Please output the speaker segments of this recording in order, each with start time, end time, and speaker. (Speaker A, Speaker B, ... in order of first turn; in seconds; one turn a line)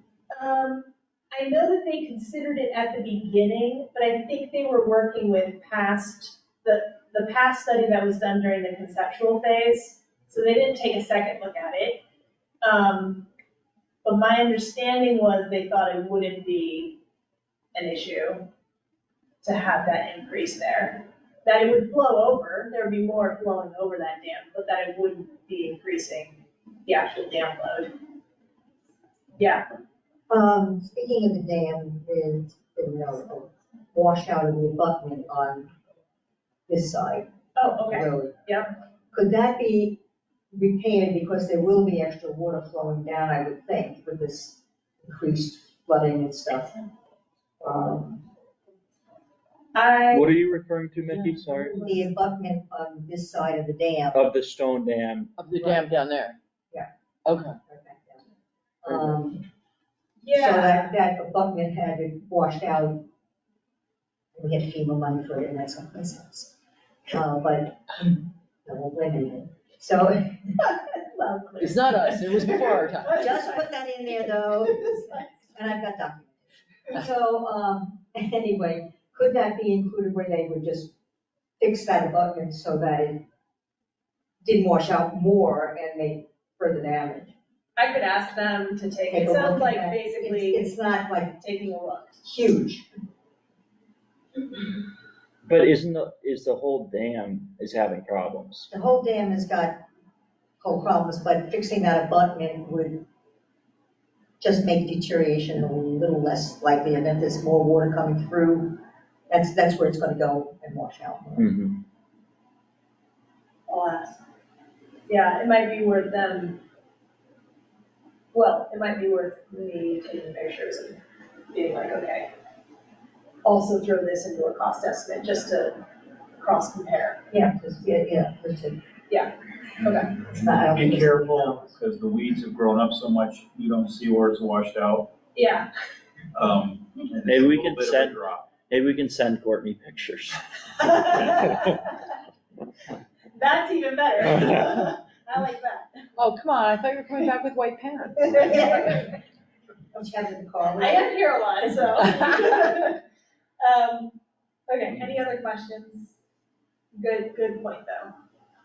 Speaker A: 0.3-12.0
Speaker A: 12.6-13.3
Speaker A: 14.1-17.0
Speaker A: 17.8-18.4
Speaker A: 19.4-27.9
Speaker A: 29.4-29.7
Speaker B: 30.3-35.7
Speaker B: 36.7-38.5
Speaker A: 37.6-38.7
Speaker B: 39.1-40.0
Speaker B: 40.5-46.8
Speaker B: 47.6-48.2
Speaker A: 49.8-50.3
Speaker C: 50.1-51.8
Speaker B: 51.8-54.2
Speaker C: 54.1-55.3
Speaker D: 55.4-56.4
Speaker B: 55.6-56.0
Speaker B: 57.7-58.2
Speaker B: 58.8-59.4
Speaker A: 60.2-60.9
Speaker B: 60.3-63.0
Speaker B: 64.3-66.5
Speaker B: 67.1-70.5
Speaker A: 70.6-73.7
Speaker D: 71.6-73.0
Speaker B: 73.2-80.9
Speaker A: 74.7-75.3
Speaker B: 81.6-83.2
Speaker B: 84.4-87.3
Speaker A: 87.8-90.8
Speaker B: 89.1-91.3
Speaker A: 91.4-92.2
Speaker B: 92.2-92.9
Speaker C: 95.5-98.7
Speaker B: 98.7-99.8
Speaker B: 100.6-103.0
Speaker B: 104.4-111.5
Speaker C: 111.4-111.8
Speaker A: 113.7-114.2
Speaker A: 115.1-116.6
Speaker A: 118.3-121.0
Speaker A: 121.5-122.3
Speaker A: 123.5-125.8
Speaker A: 126.4-127.2
Speaker B: 127.3-128.8
Speaker A: 129.1-130.2
Speaker B: 130.3-131.6
Speaker E: 130.5-135.1
Speaker A: 135.3-135.7
Speaker E: 136.3-138.5
Speaker C: 137.2-140.4
Speaker A: 140.8-141.8
Speaker A: 143.3-146.3
Speaker D: 146.3-148.1
Speaker A: 148.3-149.1
Speaker B: 148.4-149.1
Speaker B: 149.9-151.1
Speaker A: 150.8-153.0
Speaker A: 153.6-156.2
Speaker A: 156.9-158.1